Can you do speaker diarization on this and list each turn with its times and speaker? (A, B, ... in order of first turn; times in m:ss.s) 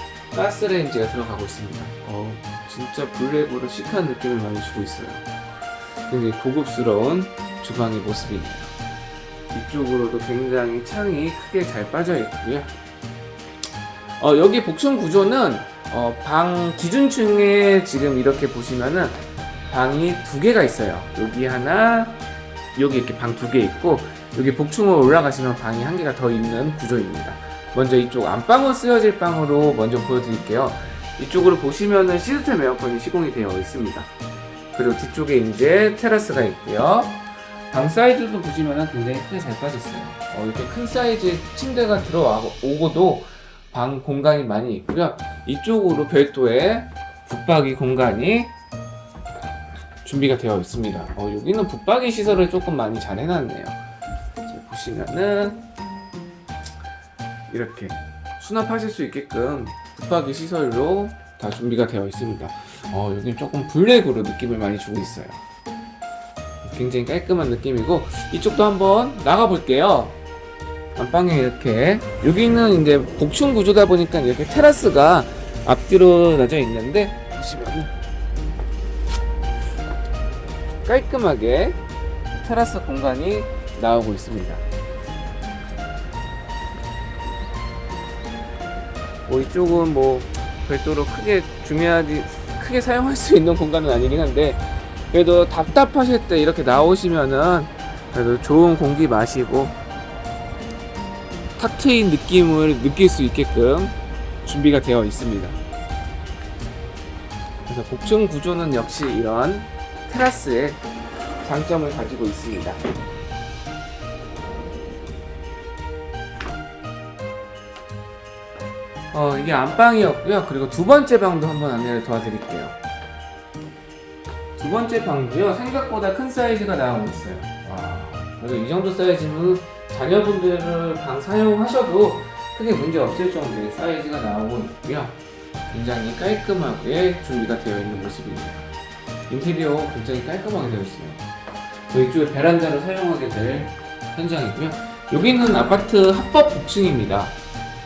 0:00.3-0:05.3 A
0:06.1-0:08.7 A
0:09.5-0:12.7 A
0:14.2-0:22.2 A
0:22.7-0:34.1 A
0:34.7-0:48.5 A
0:50.0-0:53.8 A
0:54.4-0:55.6 A
0:57.5-1:05.4 A
1:06.6-1:10.2 A
1:11.0-1:17.9 A
1:20.8-1:21.8 A
1:22.4-1:24.6 A
1:29.3-1:39.8 A
1:41.6-1:45.6 A
1:47.6-1:50.8 A
1:51.4-1:52.8 A
1:59.1-2:02.8 A
2:04.6-2:15.2 A
2:15.7-2:18.7 A
2:19.3-2:21.2 A
2:21.9-2:27.3 A